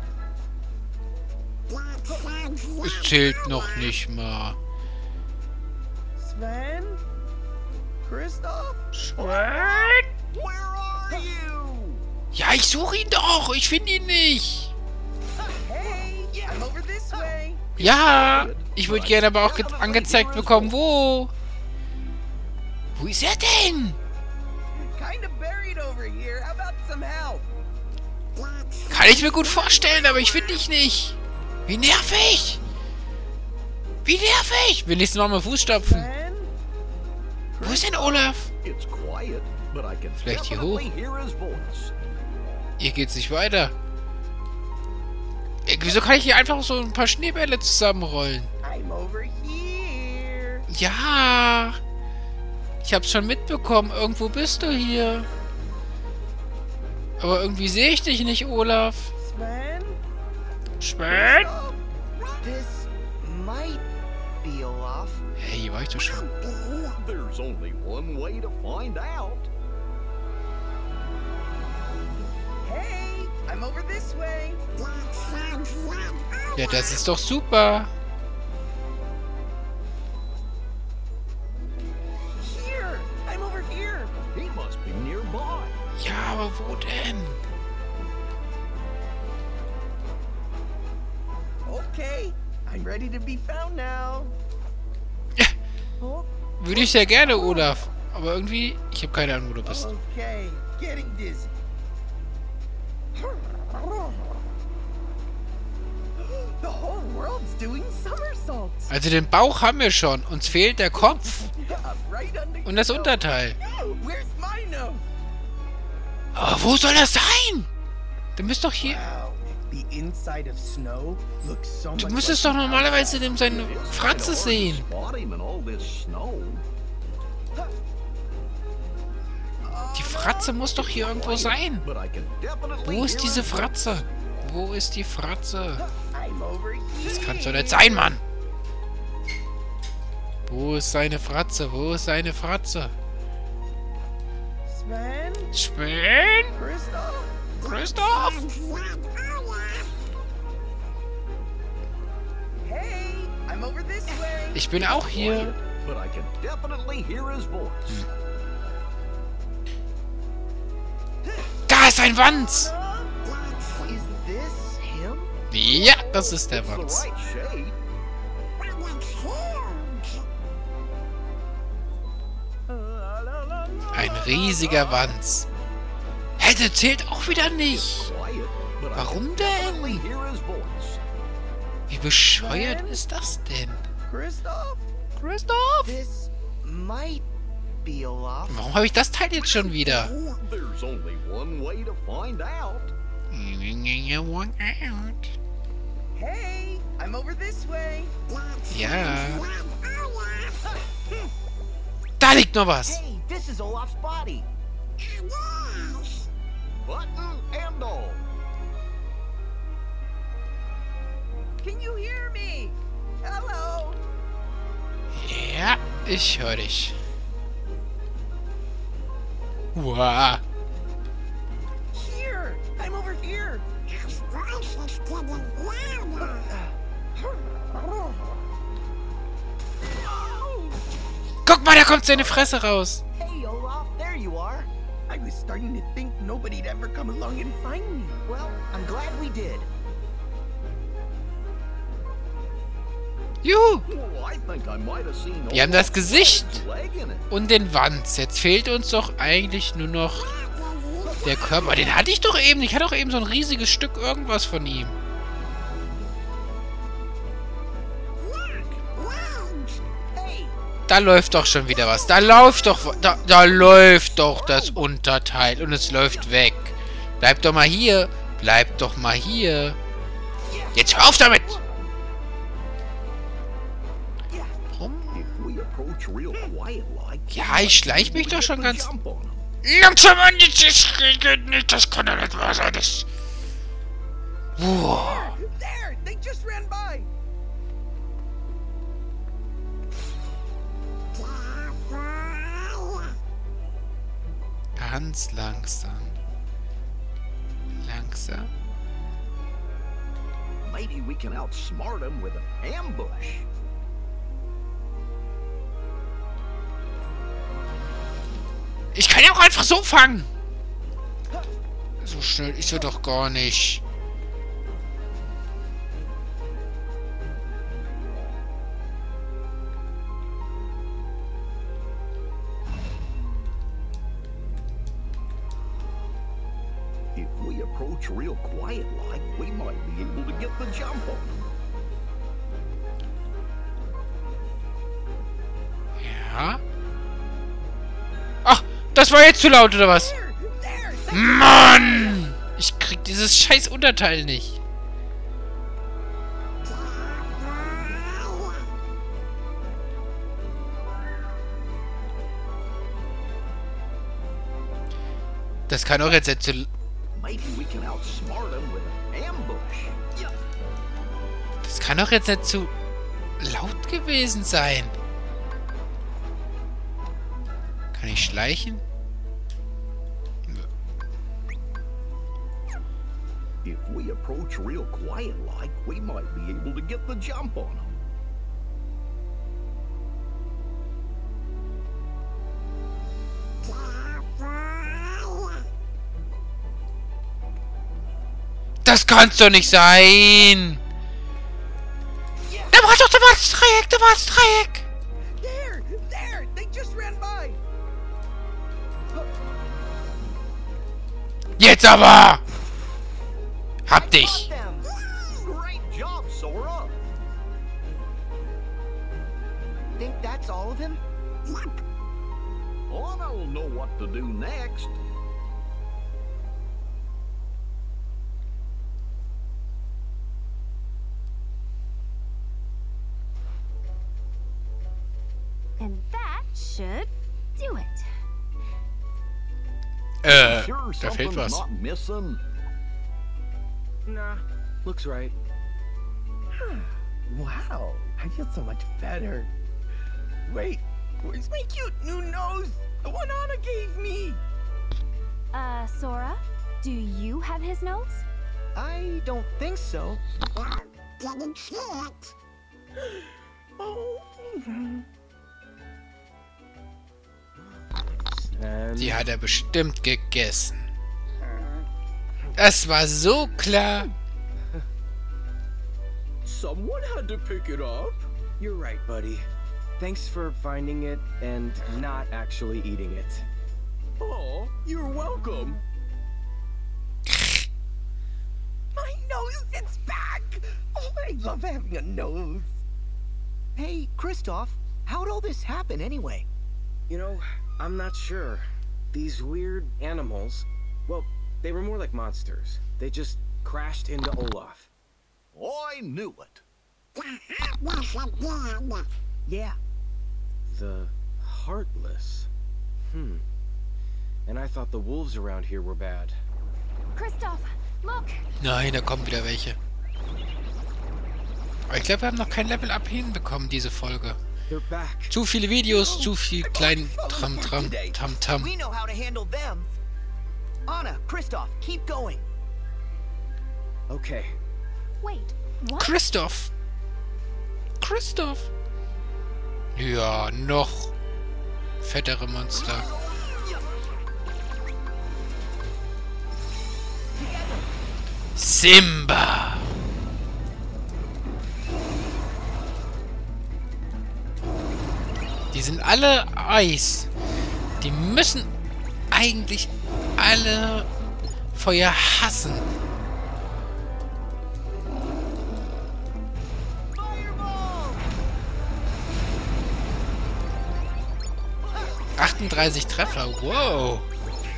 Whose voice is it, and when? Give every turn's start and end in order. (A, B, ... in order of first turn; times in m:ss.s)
0:02.8-0:04.6 A
0:06.2-0:07.0 B
0:08.0-0:08.8 B
0:08.9-0:10.1 A
0:09.2-0:12.1 C
0:12.3-0:14.7 A
0:15.6-0:17.8 B
0:17.8-0:20.8 C
0:17.8-0:21.3 A
0:23.0-0:24.0 A
0:24.7-0:27.5 B
0:28.9-0:32.6 A
0:34.0-0:36.1 A
0:35.7-0:36.5 B
0:37.6-0:38.3 B
0:37.6-0:38.5 A
0:38.6-0:41.9 C
0:40.2-0:40.9 A
0:42.8-0:43.7 A
0:45.6-0:48.5 A
0:48.6-0:50.7 B
0:50.7-0:51.8 A
0:52.8-0:55.3 A
0:57.2-0:59.1 A
0:59.2-1:00.0 B
1:00.8-1:01.5 A
1:01.1-1:02.4 B
1:02.4-1:03.8 D
1:04.4-1:05.2 D
1:05.4-1:06.3 A
1:06.9-1:09.5 C
1:12.6-1:14.6 B
1:16.5-1:17.9 A
1:22.4-1:24.1 B
1:24.3-1:25.8 C
1:26.0-1:27.4 A
1:31.6-1:34.4 B
1:36.0-1:37.9 B
1:36.6-1:39.9 A
1:39.6-1:41.5 B
1:43.3-1:44.1 B
1:46.2-1:48.9 B
1:48.9-1:51.5 A
1:51.0-1:55.0 B
1:52.6-1:53.6 A
1:56.4-1:57.7 A
1:58.4-1:59.0 A
1:58.8-2:03.4 B
2:02.0-2:04.9 A
2:03.4-2:06.6 C
2:09.6-2:11.5 B
2:10.0-2:11.9 A
2:10.9-2:14.0 C
2:12.8-2:15.9 A
2:16.1-2:18.1 B
2:17.0-2:18.2 A
2:20.5-2:22.9 A
2:24.7-2:25.5 B
2:25.5-2:26.6 A
2:26.6-2:27.5 B
2:27.6-2:28.5 A
2:32.6-2:34.6 B
2:34.5-2:35.6 A
2:34.8-2:38.1 C
2:41.7-2:42.7 A
2:42.2-2:43.1 B
2:43.8-2:45.3 D
2:45.5-2:47.1 A
2:45.7-2:47.8 C
2:53.9-2:55.5 A
2:56.4-2:58.1 A
2:57.7-3:01.0 C
2:58.9-3:00.0 A
3:01.9-3:03.8 A
3:02.3-3:03.0 B
3:04.1-3:04.8 B
3:05.2-3:06.0 A
3:05.8-3:07.2 D
3:07.8-3:08.6 D
3:08.5-3:10.2 A
3:09.6-3:12.9 C
3:13.3-3:15.4 A
3:16.2-3:18.2 B
3:18.7-3:19.5 A
3:22.2-3:23.0 A
3:22.8-3:24.5 D
3:26.8-3:28.2 C
3:31.6-3:34.0 B
3:35.1-3:37.0 A
3:39.8-3:40.4 A
3:41.9-3:44.2 B
3:46.1-3:46.7 B
3:50.0-3:50.8 B
3:51.5-3:53.0 A
3:53.2-3:54.7 D
3:55.1-3:58.2 B
3:58.3-3:59.7 D
4:03.4-4:03.9 A
4:03.9-4:07.3 C
4:05.5-4:06.6 A
4:07.3-4:10.4 A
4:11.2-4:15.0 A
4:20.1-4:20.6 D
4:20.9-4:29.8 A
4:24.3-4:24.7 C
4:30.7-4:31.6 A
4:34.7-4:35.2 A
4:35.1-4:39.5 C
4:37.3-4:38.9 A
4:39.6-4:43.1 A
4:44.6-4:45.4 A
4:44.7-4:47.1 B
4:54.8-4:56.2 A
4:57.8-4:58.5 A
5:00.6-5:03.5 C
5:08.9-5:10.3 A
5:12.0-5:13.8 A
5:27.1-5:31.4 C
5:36.0-5:36.6 A
5:38.4-5:40.2 A
5:39.8-5:42.2 B
5:41.1-5:44.6 A
5:55.7-5:56.7 A
5:57.2-6:00.0 C
6:01.6-6:02.7 A
6:03.4-6:05.0 A
6:07.9-6:08.8 A
6:13.6-6:18.0 C
6:28.8-6:30.8 A
6:32.7-6:34.9 A
6:35.4-6:37.6 B
6:41.6-6:42.4 A
6:43.9-6:44.5 A
6:43.9-6:44.9 D
6:45.3-6:47.0 C
6:50.0-6:51.0 D
6:52.9-6:55.0 C
7:05.8-7:08.1 E
7:10.2-7:11.6 A
7:10.3-7:12.4 C
7:14.1-7:15.4 F
7:16.5-7:19.5 B
7:20.5-7:24.4 B
7:25.5-7:28.3 E
7:28.8-7:30.2 D
7:33.8-7:35.0 B
7:38.3-7:39.3 F
7:39.0-7:40.8 A
7:42.6-7:44.1 A
7:46.4-7:48.3 C
7:48.6-7:49.5 F
7:50.0-7:53.4 F
7:54.2-7:55.8 C
7:57.3-7:57.6 A
7:59.0-8:02.8 B
8:03.8-8:06.5 D
8:07.1-8:14.9 F
8:15.5-8:16.6 C
8:19.5-8:19.8 D
8:20.7-8:22.5 F
8:23.1-8:23.4 F
8:24.5-8:26.4 F
8:27.2-8:28.4 E
8:28.6-8:29.8 A
8:31.9-8:34.4 A
8:34.7-8:35.4 F
8:35.3-8:38.7 A
8:35.8-8:38.2 B
8:38.6-8:39.9 D
8:40.9-8:42.5 D
8:44.1-8:44.6 F
8:45.2-8:46.2 E
8:46.0-8:46.7 A
8:48.0-8:48.7 A
8:50.0-8:51.1 A
8:52.0-8:53.1 A
8:57.4-8:57.7 D
8:58.6-8:59.9 A
9:05.7-9:07.3 A
9:08.0-9:08.7 A
9:09.3-9:11.1 A
9:11.7-9:12.9 A
9:17.2-9:18.2 D
9:22.4-9:24.3 A